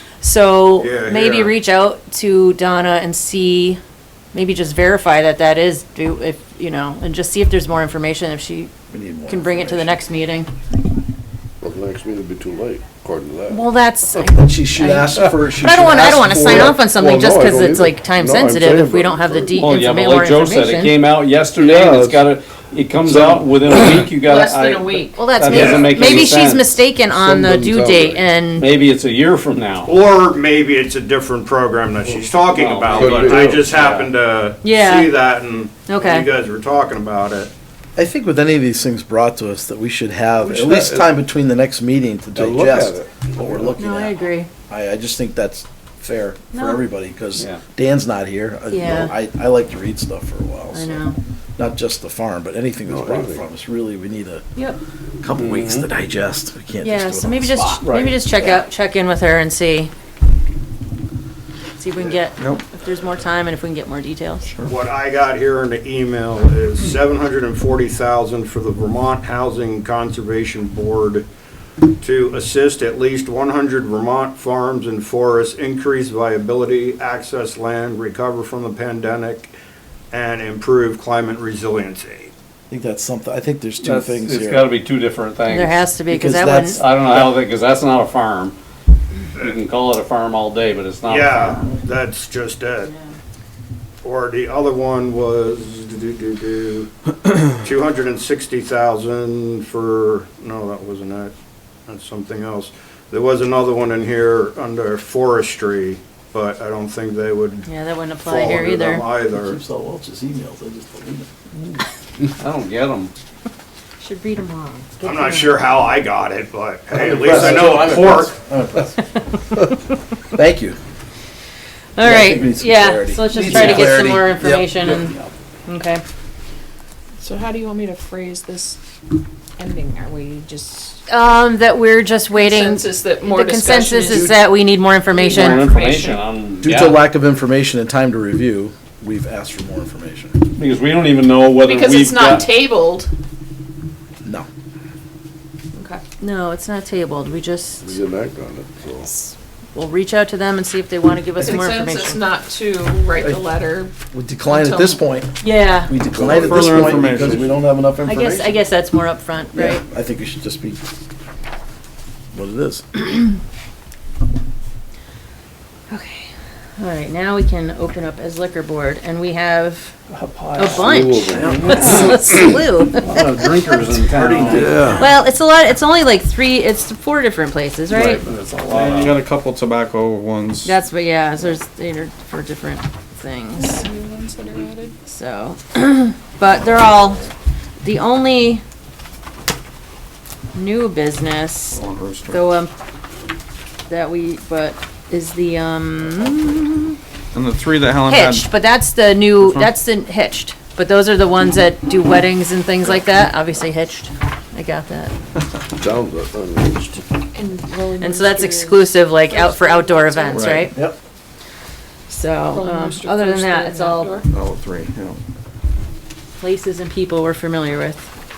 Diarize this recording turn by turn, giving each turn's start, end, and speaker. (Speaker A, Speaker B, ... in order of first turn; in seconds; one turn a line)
Speaker A: 0.2-3.8
Speaker B: 0.8-1.5
Speaker A: 4.3-8.7
Speaker C: 8.9-10.0
Speaker A: 9.3-10.5
Speaker D: 11.6-13.6
Speaker A: 13.5-21.0
Speaker C: 14.2-16.8
Speaker D: 16.4-19.5
Speaker E: 19.5-26.7
Speaker D: 21.6-22.3
Speaker D: 23.1-23.4
Speaker F: 24.2-25.2
Speaker A: 25.1-28.7
Speaker B: 25.5-26.1
Speaker D: 27.0-28.2
Speaker E: 28.6-29.9
Speaker B: 29.9-37.5
Speaker D: 32.1-33.8
Speaker E: 32.5-34.1
Speaker A: 34.6-35.2
Speaker A: 35.9-36.3
Speaker C: 38.0-51.0
Speaker D: 40.4-41.1
Speaker D: 42.4-43.8
Speaker A: 43.8-44.5
Speaker A: 46.5-46.8
Speaker E: 47.4-47.6
Speaker A: 48.7-49.1
Speaker A: 50.7-51.2
Speaker C: 51.6-54.5
Speaker D: 52.9-53.5
Speaker C: 55.2-57.8
Speaker E: 55.3-55.9
Speaker A: 56.8-59.9
Speaker E: 57.8-58.1
Speaker A: 61.8-64.4
Speaker G: 62.4-62.6
Speaker G: 64.5-64.8
Speaker B: 64.7-71.3
Speaker B: 72.0-79.5
Speaker B: 80.1-82.3
Speaker C: 82.7-84.7
Speaker E: 83.8-85.8
Speaker A: 85.5-86.8
Speaker C: 86.1-87.4
Speaker E: 86.8-88.6
Speaker E: 89.4-91.6
Speaker B: 91.1-92.9
Speaker B: 94.0-96.9
Speaker B: 97.6-101.3
Speaker B: 101.9-107.7
Speaker A: 107.7-109.0
Speaker B: 108.2-109.6
Speaker C: 109.3-111.3
Speaker E: 111.6-113.1
Speaker A: 114.0-115.6
Speaker B: 115.0-118.3
Speaker C: 116.9-118.9
Speaker D: 117.3-117.8
Speaker A: 119.5-119.8
Speaker C: 120.3-120.8
Speaker A: 122.0-125.2
Speaker C: 122.0-125.2
Speaker E: 123.4-124.0
Speaker A: 125.7-126.0
Speaker F: 127.2-128.8
Speaker F: 129.6-131.0
Speaker A: 131.1-135.7
Speaker F: 132.3-134.4
Speaker C: 133.8-134.4
Speaker F: 135.1-136.2
Speaker E: 135.3-137.0
Speaker C: 136.6-140.3
Speaker E: 140.6-142.5
Speaker F: 141.6-143.1
Speaker F: 145.8-146.0
Speaker A: 146.2-147.9
Speaker D: 147.8-149.1
Speaker A: 149.1-152.2
Speaker F: 151.4-153.9
Speaker C: 153.2-153.5
Speaker C: 154.1-158.6
Speaker F: 154.5-155.0
Speaker A: 155.4-155.9
Speaker D: 156.1-157.5
Speaker G: 156.2-157.5
Speaker A: 158.0-159.8
Speaker C: 159.5-160.8
Speaker C: 162.3-162.8
Speaker A: 165.9-170.0
Speaker E: 170.1-172.2
Speaker A: 170.6-173.0
Speaker D: 170.8-172.1
Speaker C: 171.3-172.1
Speaker E: 173.0-174.9
Speaker B: 174.1-174.8
Speaker C: 174.2-175.1
Speaker G: 174.5-174.9
Speaker A: 174.9-178.2
Speaker E: 177.9-179.2
Speaker G: 178.7-180.7
Speaker A: 180.6-183.9
Speaker F: 183.6-184.9
Speaker A: 185.1-187.3
Speaker A: 187.8-188.6
Speaker A: 190.5-192.7
Speaker G: 191.7-192.5
Speaker A: 193.9-197.0
Speaker G: 197.3-198.5
Speaker A: 198.1-205.1
Speaker D: 205.8-207.0
Speaker F: 207.3-210.6
Speaker A: 208.0-210.8
Speaker G: 210.3-210.7
Speaker C: 210.7-211.0
Speaker A: 212.1-214.2
Speaker F: 212.5-214.3
Speaker G: 214.3-215.2
Speaker A: 216.4-218.1